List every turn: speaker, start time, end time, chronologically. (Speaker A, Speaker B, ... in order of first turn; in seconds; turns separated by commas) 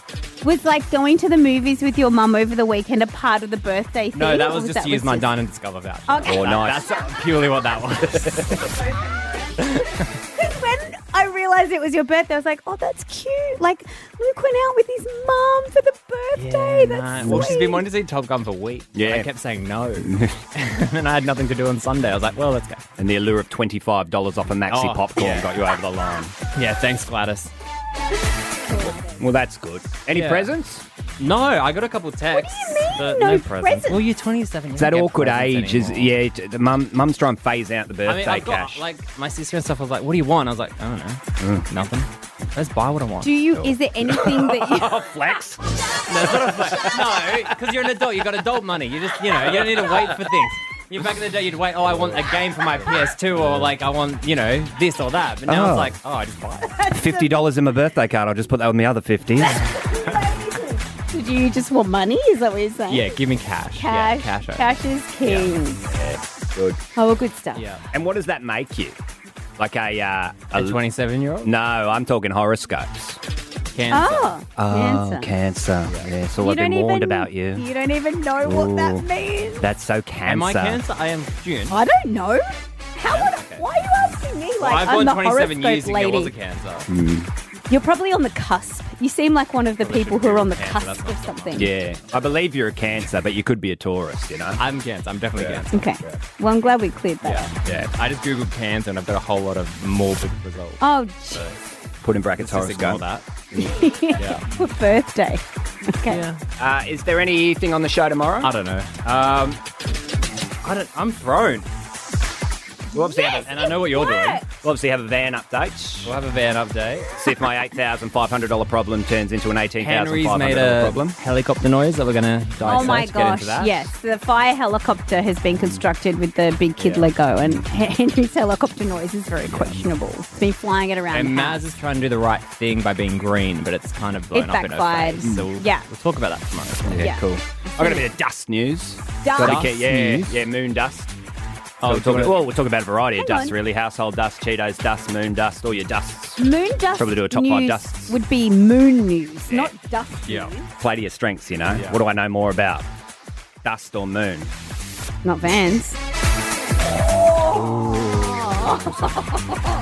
Speaker A: 0.4-5.3, Speaker B: 4.1-8.8, Speaker A: 6.1-6.7, Speaker C: 6.2-6.9, Speaker C: 8.2-8.6, Speaker A: 9.3-17.9, Speaker B: 9.6-10.1, Speaker B: 16.3-22.8, Speaker C: 17.2-17.5, Speaker C: 18.9-19.3, Speaker C: 20.0-20.4, Speaker C: 23.0-26.4, Speaker B: 24.7-25.5, Speaker B: 26.5-27.5, Speaker A: 28.6-29.2, Speaker C: 29.1-30.8, Speaker B: 30.1-30.5, Speaker B: 31.2-36.1, Speaker A: 32.3-34.1, Speaker C: 34.8-38.8, Speaker B: 38.0-43.4, Speaker C: 41.4-41.7, Speaker A: 43.2-44.9, Speaker C: 43.5-47.5, Speaker B: 46.1-56.8, Speaker C: 49.5-50.1, Speaker C: 53.4-53.7, Speaker C: 55.5-55.9, Speaker A: 56.6-57.3, Speaker C: 56.9-59.7, Speaker A: 59.8-63.2, Speaker B: 62.9-65.5, Speaker A: 63.7-65.8, Speaker C: 65.8-66.8, Speaker A: 66.9-67.7, Speaker B: 67.5-67.8, Speaker C: 67.9-69.0, Speaker C: 69.6-70.8, Speaker B: 70.5-71.5, Speaker C: 71.4-73.2, Speaker B: 73.7-74.4, Speaker A: 73.9-75.3, Speaker C: 74.5-77.7, Speaker A: 76.4-79.7, Speaker C: 78.4-79.1, Speaker C: 79.6-80.8, Speaker B: 80.2-81.8, Speaker A: 81.7-86.3, Speaker B: 83.0-83.7, Speaker B: 84.6-86.9, Speaker C: 86.9-87.3, Speaker A: 87.7-91.7, Speaker B: 89.8-91.8, Speaker C: 91.5-94.6, Speaker B: 94.6-95.7, Speaker C: 95.3-96.2, Speaker A: 95.7-97.5, Speaker B: 97.2-100.8, Speaker A: 100.8-101.5, Speaker C: 102.0-103.0, Speaker B: 102.4-103.2, Speaker A: 103.5-106.2, Speaker B: 104.1-104.5, Speaker B: 106.1-106.4, Speaker C: 106.6-108.5, Speaker B: 108.4-109.6, Speaker B: 110.6-111.7, Speaker C: 112.9-113.7, Speaker A: 112.9-114.4, Speaker B: 113.4-114.5, Speaker C: 114.5-116.2, Speaker B: 116.0-117.1, Speaker C: 117.1-121.2, Speaker B: 119.8-123.9, Speaker A: 122.6-131.6, Speaker C: 122.7-123.0, Speaker B: 126.8-127.1, Speaker B: 131.1-137.4, Speaker A: 134.3-135.9, Speaker C: 135.2-135.5, Speaker C: 136.8-141.1, Speaker A: 137.0-137.2, Speaker A: 137.8-138.0, Speaker A: 139.2-139.7, Speaker B: 139.3-140.4, Speaker B: 141.8-142.4, Speaker C: 141.8-148.2, Speaker A: 143.2-143.6, Speaker A: 146.4-150.7, Speaker C: 149.5-149.7, Speaker B: 150.3-150.5, Speaker C: 150.8-152.9, Speaker B: 151.7-152.0, Speaker C: 153.6-154.5, Speaker A: 155.2-156.0, Speaker A: 157.1-159.6